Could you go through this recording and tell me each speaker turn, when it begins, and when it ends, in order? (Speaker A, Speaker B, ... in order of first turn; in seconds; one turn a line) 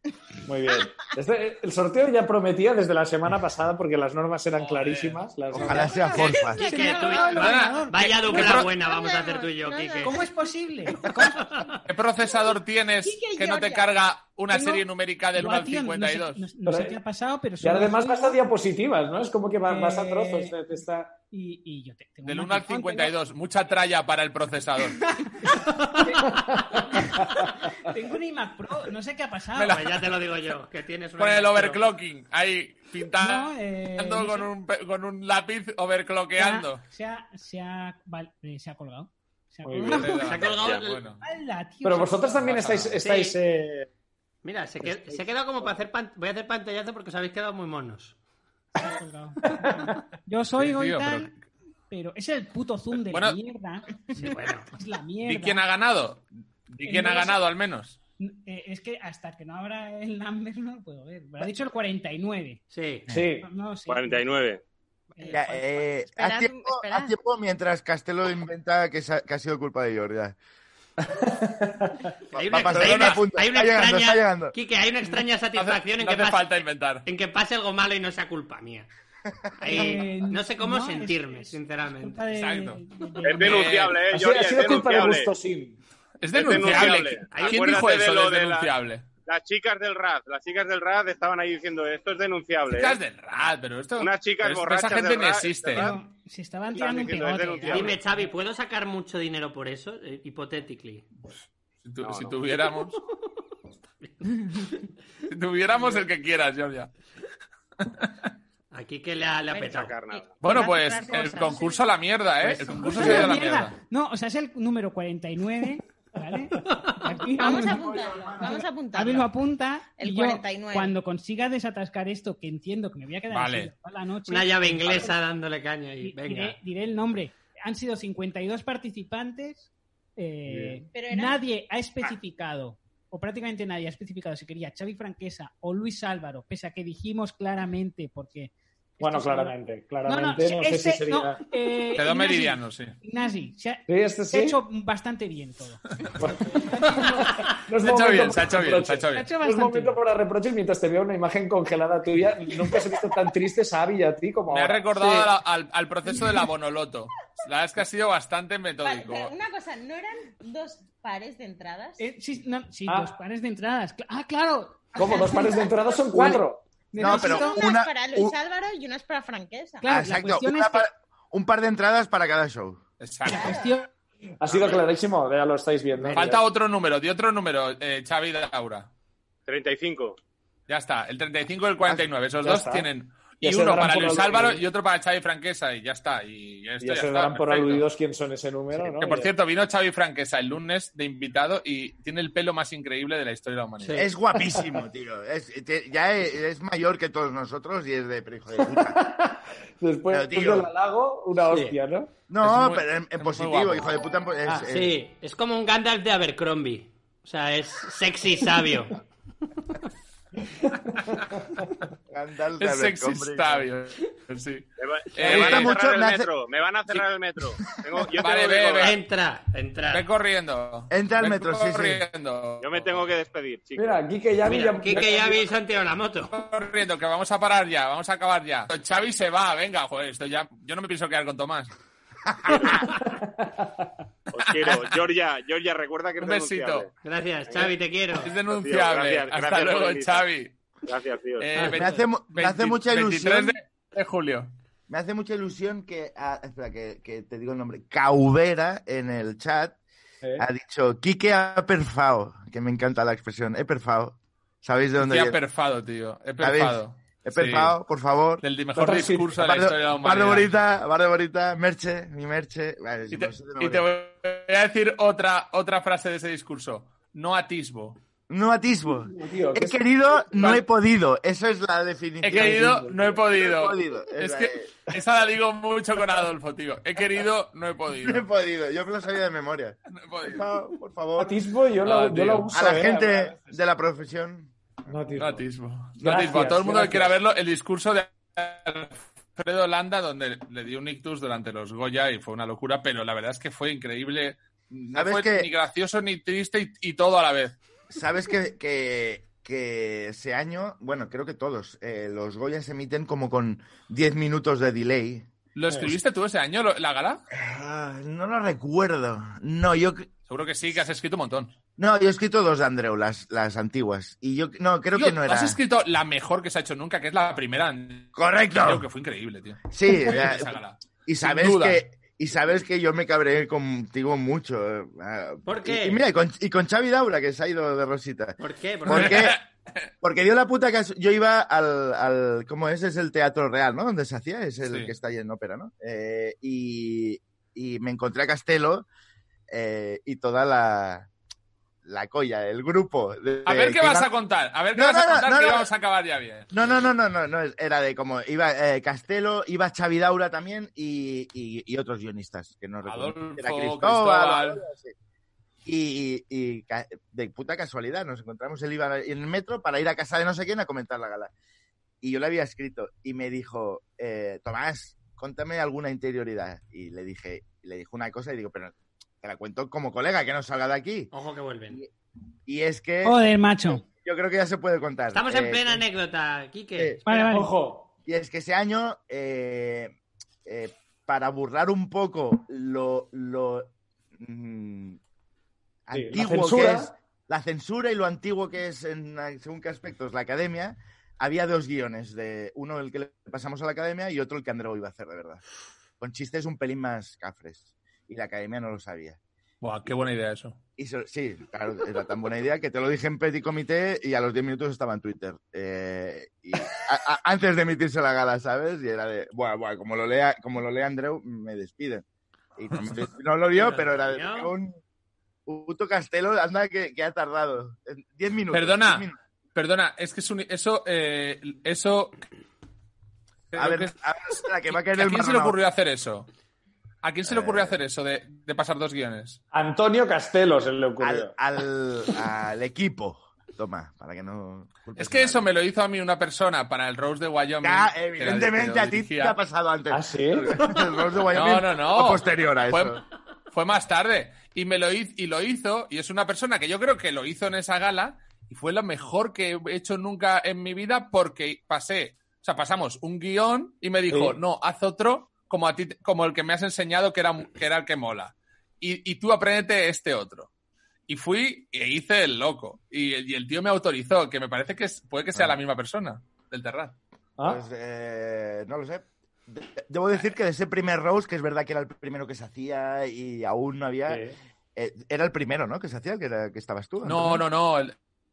Speaker A: 0.5-6.1
Speaker B: 4.7-5.1
Speaker C: 5.5-6.6
Speaker D: 5.6-8.6
Speaker E: 6.1-7.7
Speaker F: 6.1-10.2
Speaker B: 7.3-8.7
Speaker E: 8.3-10.3
Speaker D: 10.0-11.5
Speaker F: 11.1-11.8
Speaker B: 11.8-16.5
Speaker E: 12.3-13.9
Speaker D: 14.5-18.4
Speaker A: 16.6-17.0
Speaker A: 17.6-21.2
Speaker D: 19.6-20.6
Speaker D: 21.3-23.1
Speaker B: 22.2-25.0
Speaker D: 24.9-27.2
Speaker F: 25.5-26.4
Speaker A: 26.3-27.5
Speaker D: 27.8-29.9
Speaker B: 29.6-30.0
Speaker F: 29.6-31.8
Speaker B: 31.2-36.8
Speaker D: 33.2-34.5
Speaker D: 36.4-40.4
Speaker A: 39.6-40.1
Speaker B: 39.9-41.2
Speaker F: 40.1-41.0
Speaker G: 40.5-40.9
Speaker D: 41.2-42.6
Speaker A: 41.8-43.9
Speaker B: 42.4-43.0
Speaker F: 43.0-43.4
Speaker F: 44.4-48.1
Speaker A: 44.8-45.7
Speaker D: 48.8-51.3
Speaker A: 49.6-50.0
Speaker B: 50.6-51.3
Speaker D: 51.9-55.6
Speaker B: 53.1-53.4
Speaker F: 54.2-54.7
Speaker B: 55.2-58.0
Speaker D: 56.8-57.5
Speaker D: 58.2-62.6
Speaker F: 62.7-63.1
Speaker A: 63.1-63.5
Speaker D: 63.4-64.2
Speaker G: 63.9-64.6
Speaker D: 65.2-65.8
Speaker C: 65.3-70.3
Speaker E: 66.1-67.1
Speaker A: 71.1-72.1
Speaker F: 72.3-78.9
Speaker C: 72.3-74.5
Speaker B: 72.7-73.2
Speaker B: 75.5-77.0
Speaker F: 79.6-82.2
Speaker D: 79.6-83.7
Speaker B: 82.3-84.0
Speaker G: 83.2-85.3
Speaker A: 84.1-85.8
Speaker B: 86.2-89.1
Speaker G: 86.3-88.7
Speaker F: 87.3-87.9
Speaker G: 89.2-93.0
Speaker B: 92.7-95.9
Speaker G: 94.0-96.0
Speaker D: 95.7-98.3
Speaker G: 96.7-98.0
Speaker F: 97.7-101.0
Speaker B: 101.8-103.0
Speaker G: 102.0-102.6
Speaker D: 104.2-104.7
Speaker B: 105.2-106.9
Speaker B: 107.8-108.3
Speaker F: 108.7-110.0
Speaker G: 109.5-110.3
Speaker E: 110.1-111.8
Speaker B: 110.4-113.8
Speaker D: 112.4-125.2
Speaker F: 116.6-117.1
Speaker E: 117.4-119.3
Speaker C: 117.8-118.5
Speaker E: 120.0-120.9
Speaker B: 123.3-123.7
Speaker F: 124.3-126.5
Speaker D: 126.0-145.9
Speaker A: 130.5-130.8
Speaker E: 130.9-131.4
Speaker A: 139.0-141.5
Speaker B: 141.9-143.0
Speaker A: 143.9-144.6
Speaker A: 146.2-154.9
Speaker D: 146.6-147.3
Speaker B: 147.8-149.3
Speaker D: 149.1-150.0
Speaker B: 154.5-159.3
Speaker F: 155.0-155.2
Speaker E: 158.8-162.0
Speaker D: 162.0-166.4
Speaker A: 162.8-163.1
Speaker A: 164.9-166.7
Speaker D: 166.9-167.7
Speaker C: 167.0-168.3
Speaker E: 167.0-169.8
Speaker D: 169.8-170.9
Speaker C: 169.9-172.8
Speaker B: 173.0-173.6
Speaker E: 173.3-173.7
Speaker D: 173.3-173.9
Speaker A: 174.4-176.4
Speaker B: 174.5-174.8
Speaker B: 176.1-178.9
Speaker G: 179.5-180.2
Speaker B: 180.7-187.8
Speaker A: 181.9-182.9
Speaker A: 183.4-184.6
Speaker A: 186.8-189.3
Speaker B: 188.7-194.1
Speaker F: 193.8-194.1
Speaker C: 193.9-199.0
Speaker A: 198.6-202.1
Speaker C: 200.1-200.7
Speaker F: 201.5-201.8
Speaker C: 202.3-204.9
Speaker B: 202.4-203.9
Speaker F: 204.7-209.0
Speaker C: 212.1-213.7
Speaker B: 212.6-215.7
Speaker G: 214.8-219.0
Speaker C: 215.2-216.3
Speaker B: 218.2-218.9
Speaker F: 218.8-220.0
Speaker B: 219.9-223.1
Speaker C: 220.9-222.0
Speaker G: 222.6-224.0
Speaker A: 223.8-225.5
Speaker F: 224.4-226.3
Speaker B: 226.3-231.7
Speaker C: 232.4-232.7
Speaker G: 232.5-232.8
Speaker A: 233.1-233.9
Speaker G: 234.3-236.9
Speaker B: 234.4-234.9
Speaker B: 236.2-236.8
Speaker F: 237.0-238.3
Speaker G: 237.5-237.8
Speaker B: 238.2-240.6
Speaker G: 238.5-240.3
Speaker G: 240.8-241.5
Speaker B: 241.4-244.5
Speaker F: 241.5-241.8
Speaker C: 241.7-243.6
Speaker C: 244.9-249.8
Speaker C: 250.4-255.4
Speaker B: 255.0-257.7
Speaker C: 256.4-258.4
Speaker B: 258.4-260.5
Speaker A: 258.8-259.4
Speaker C: 259.4-263.9
Speaker B: 263.1-268.0
Speaker C: 268.3-274.7
Speaker A: 269.1-270.6
Speaker B: 272.2-278.2
Speaker A: 272.3-273.1
Speaker C: 277.9-281.4
Speaker B: 279.9-280.4
Speaker A: 281.2-283.6
Speaker B: 281.8-282.5
Speaker C: 282.5-284.5
Speaker A: 284.9-285.4
Speaker B: 285.2-297.6
Speaker A: 286.0-287.1
Speaker C: 286.0-286.3
Speaker C: 294.9-295.5
Speaker C: 297.9-305.3
Speaker B: 305.5-307.2
Speaker C: 307.3-310.1
Speaker B: 310.3-311.5
Speaker C: 311.8-315.6
Speaker B: 314.9-321.8
Speaker C: 318.1-318.9
Speaker C: 319.7-329.4
Speaker F: 325.4-326.0
Speaker F: 328.4-329.3
Speaker B: 328.9-329.9
Speaker C: 330.0-338.9
Speaker B: 334.7-334.9
Speaker C: 339.5-341.1
Speaker C: 341.8-344.1
Speaker B: 343.4-346.8
Speaker C: 344.7-345.7
Speaker C: 346.5-354.9
Speaker B: 352.8-354.6
Speaker C: 355.6-361.3
Speaker C: 362.0-371.1
Speaker F: 371.1-371.8
Speaker C: 372.4-375.8
Speaker D: 373.0-373.8
Speaker F: 375.1-377.2
Speaker D: 377.0-377.6
Speaker A: 377.1-377.9
Speaker C: 378.0-379.9
Speaker C: 380.4-385.0
Speaker C: 385.9-395.4
Speaker A: 385.9-386.9
Speaker C: 396.0-399.2
Speaker B: 399.6-400.6
Speaker C: 400.8-412.0
Speaker C: 412.6-414.8
Speaker F: 413.6-414.5
Speaker C: 415.4-419.2
Speaker B: 418.5-422.2
Speaker B: 423.5-423.9
Speaker C: 423.5-425.6
Speaker B: 424.7-426.3
Speaker B: 427.0-429.4
Speaker C: 427.2-427.8
Speaker A: 429.5-431.3
Speaker C: 431.0-435.5
Speaker B: 434.9-439.4
Speaker C: 437.6-443.0
Speaker A: 439.9-440.5
Speaker B: 441.3-460.5
Speaker A: 454.1-454.4
Speaker B: 461.1-466.9
Speaker A: 467.4-467.6
Speaker C: 467.4-474.2
Speaker A: 474.1-474.4
Speaker C: 474.8-477.4
Speaker B: 477.0-477.9